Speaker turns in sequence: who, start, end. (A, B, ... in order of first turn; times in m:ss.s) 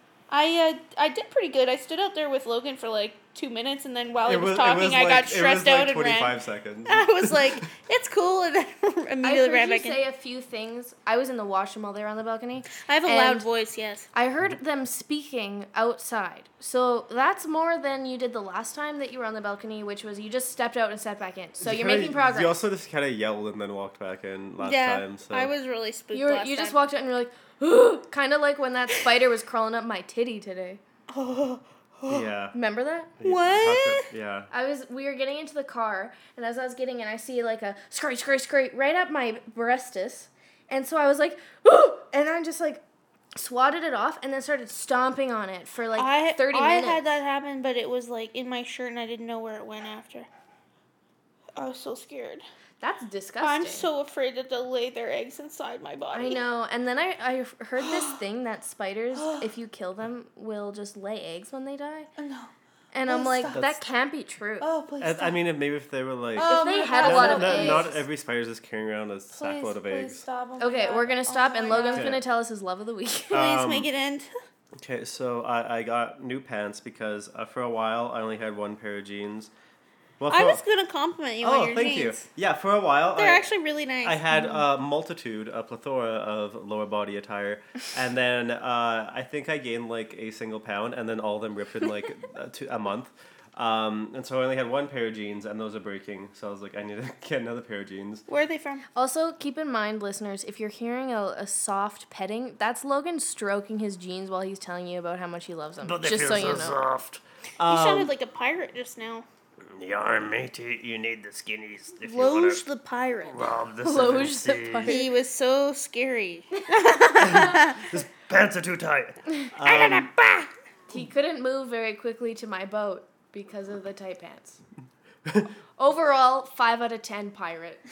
0:00.3-0:10.0 A
0:04.3-0:07.6 B
0:09.2-0:13.5 C
0:12.7-0:14.1 A
0:14.1-0:22.6 C
0:21.6-0:25.5 B
0:24.6-0:26.8 A
0:26.1-0:30.8 C
0:31.1-0:32.3 A
0:32.1-0:32.6 B
0:32.5-0:33.1 C
0:33.2-0:34.5 B
0:33.2-0:34.1 A
0:34.5-0:42.8 C
0:43.4-0:47.0 C
0:46.0-0:50.3 A
0:51.6-0:52.4 A
0:52.8-0:53.9 C
0:53.4-0:56.4 A
0:56.1-1:02.1 C
0:57.8-0:58.2 A
0:59.2-0:59.5 A
1:02.2-1:02.5 A
1:02.9-1:04.7 C
1:03.1-1:03.6 A
1:03.5-1:03.8 B
1:04.6-1:05.4 A
1:05.0-1:10.2 B
1:06.4-1:08.0 A
1:06.4-1:08.0 C
1:09.3-1:12.2 A
1:10.6-1:13.5 C
1:11.9-1:12.2 B
1:13.3-1:14.3 A
1:13.3-1:13.9 B
1:14.8-1:19.5 B
1:20.2-1:20.6 B
1:20.3-1:22.3 A
1:21.4-1:23.5 B
1:23.2-1:24.2 A
1:24.0-1:38.3 B
1:24.3-1:24.6 C
1:38.3-1:38.8 A
1:39.0-1:46.8 C
1:45.8-1:48.1 B
1:47.6-1:49.3 A
1:49.7-1:52.6 B
1:52.0-1:53.5 A
1:53.3-1:55.0 B
1:53.8-1:55.1 C
1:54.8-1:57.9 A
1:57.2-2:00.1 B
1:59.6-2:00.5 A
2:00.9-2:04.6 C
2:05.2-2:05.5 B
2:05.8-2:07.8 C